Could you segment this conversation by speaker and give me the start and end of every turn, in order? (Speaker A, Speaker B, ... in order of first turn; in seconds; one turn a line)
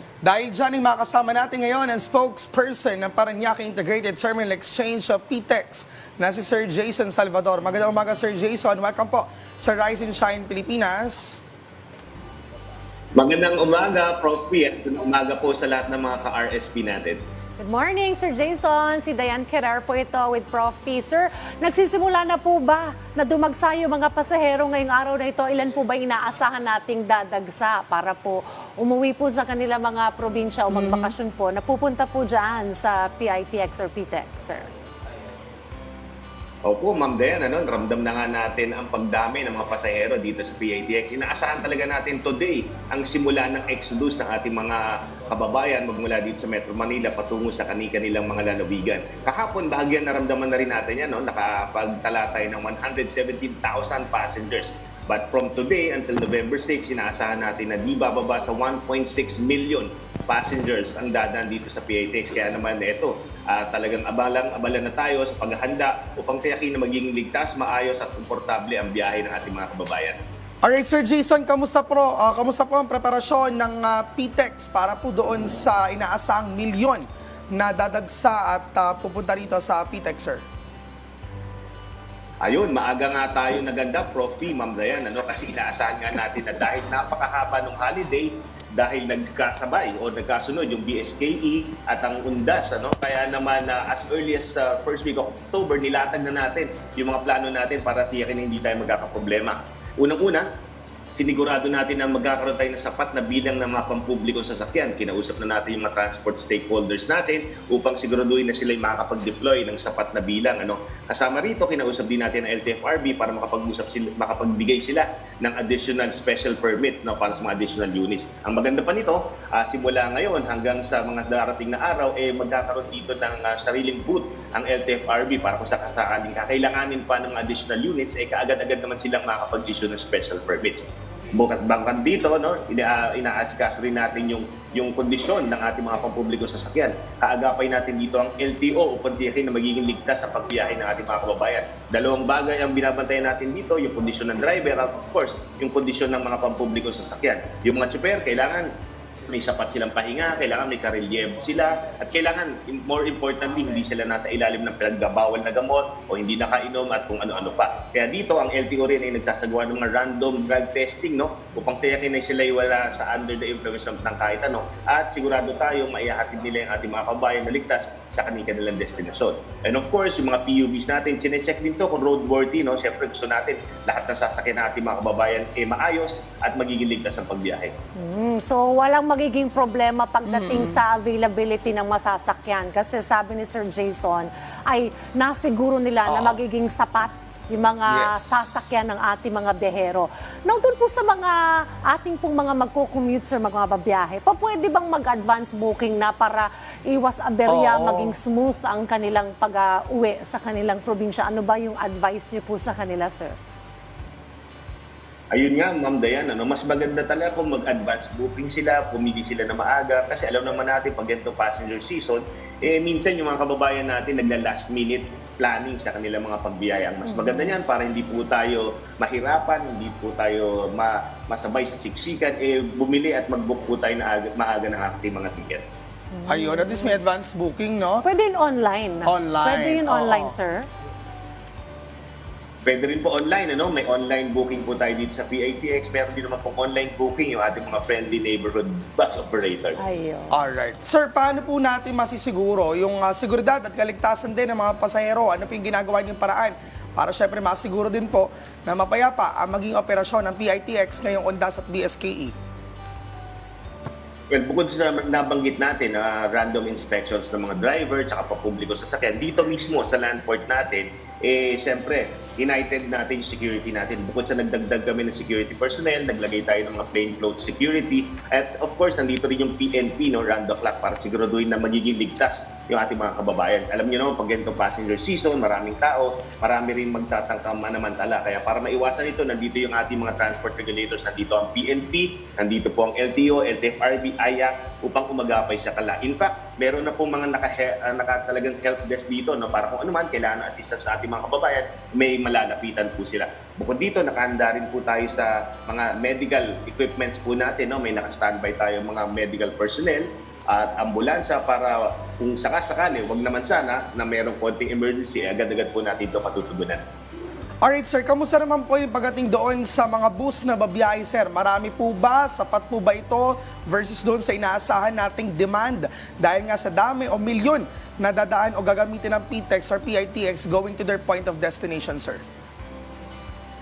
Speaker A: 0.2-11.4
Speaker B: 13.2-17.2
Speaker C: 17.6-34.7
Speaker A: 30.7-31.1
Speaker B: 36.6-70.2
Speaker A: 70.6-80.4
Speaker B: 82.4-100.5
Speaker B: 101.2-148.7
Speaker B: 149.3-177.7
Speaker C: 177.9-203.3
Speaker A: 180.2-180.8
Speaker A: 186.1-186.4
Speaker A: 187.8-188.7
Speaker A: 197.5-198.1
Speaker B: 205.3-225.6
Speaker C: 217.1-217.4
Speaker C: 226.1-227.0
Speaker A: 226.2-228.1
Speaker C: 228.0-230.7
Speaker A: 229.0-230.3
Speaker B: 232.6-239.8
Speaker C: 239.8-240.4
Speaker A: 240.3-252.3
Speaker B: 254.3-306.8
Speaker A: 307.6-322.2